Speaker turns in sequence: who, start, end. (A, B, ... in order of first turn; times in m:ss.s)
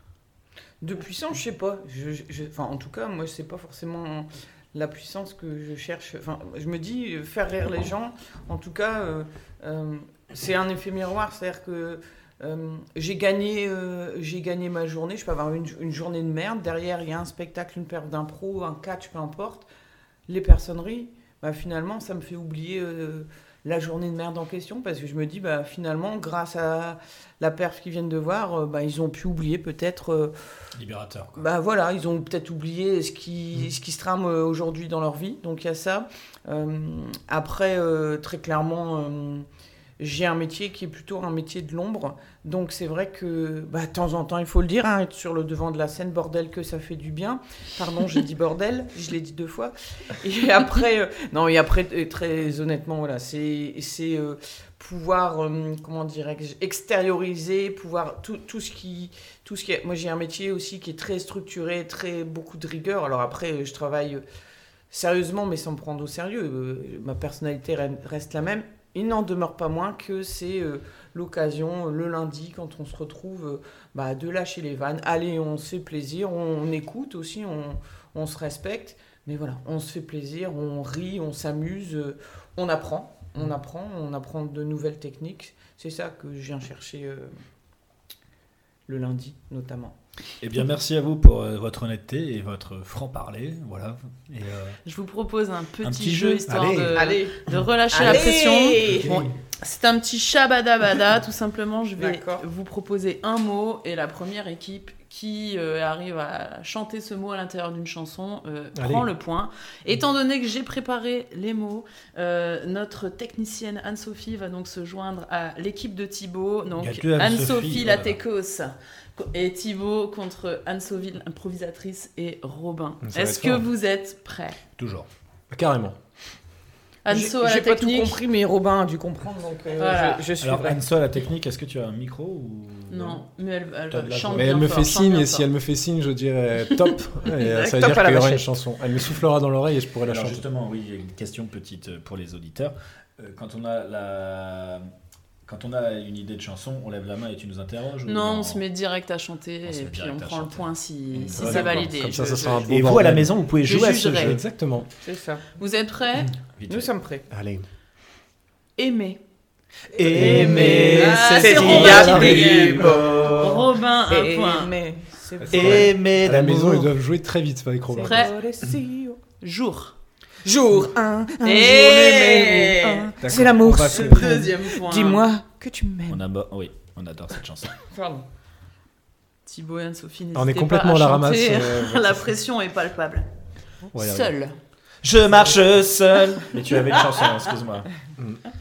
0:00.8-0:19.7 A
0:20.3-0:30.3 A
0:30.8-0:31.4 B
0:31.4-0:39.5 A
0:40.0-1:04.2 A
1:04.9-1:27.3 A
1:28.9-1:30.0 A
1:30.4-1:34.8 B
1:34.8-2:04.6 C
1:35.8-1:36.4 B
1:36.5-1:37.0 D
1:36.9-1:39.2 A
1:38.8-1:39.4 D
1:42.0-1:42.4 A
1:48.8-1:49.1 D
1:56.8-1:58.2 B
2:03.0-2:03.7 D
2:04.8-2:05.1 B
2:05.5-2:06.0 D
2:07.0-2:08.2 C
2:07.1-2:10.8 A
2:09.8-2:10.3 C
2:10.4-2:13.2 B
2:12.9-2:15.5 C
2:13.9-2:14.7 B
2:14.3-2:20.4 D
2:17.2-2:17.9 C
2:17.6-2:18.5 A
2:20.1-2:24.9 B
2:25.4-2:28.6 B
2:28.1-2:32.7 C
2:29.7-2:32.0 B
2:31.4-2:31.9 A
2:31.4-2:33.4 D
2:32.7-2:34.4 B
2:33.6-2:34.4 C
2:34.2-2:34.9 D
2:35.0-2:35.5 A
2:35.6-2:36.3 C
2:36.6-2:36.9 B
2:36.7-2:37.3 A
2:37.3-2:37.7 D
2:38.8-2:39.2 C
2:39.9-2:43.7 B
2:40.1-2:41.1 D
2:40.2-2:44.8 C
2:40.2-2:46.0 A
2:41.7-2:42.9 D
2:45.4-2:48.3 D
2:45.5-2:46.9 B
2:48.0-2:49.2 A
2:48.0-2:48.4 C
2:49.4-2:50.0 C
2:50.4-2:56.2 A
2:51.4-2:55.2 C
2:53.2-2:54.5 D
2:56.1-2:57.7 B
2:57.8-2:58.2 A
2:59.5-3:03.3 C
3:00.4-3:02.3 D
3:03.9-3:04.3 D
3:04.0-3:04.6 C
3:05.0-3:07.9 B
3:08.2-3:08.4 D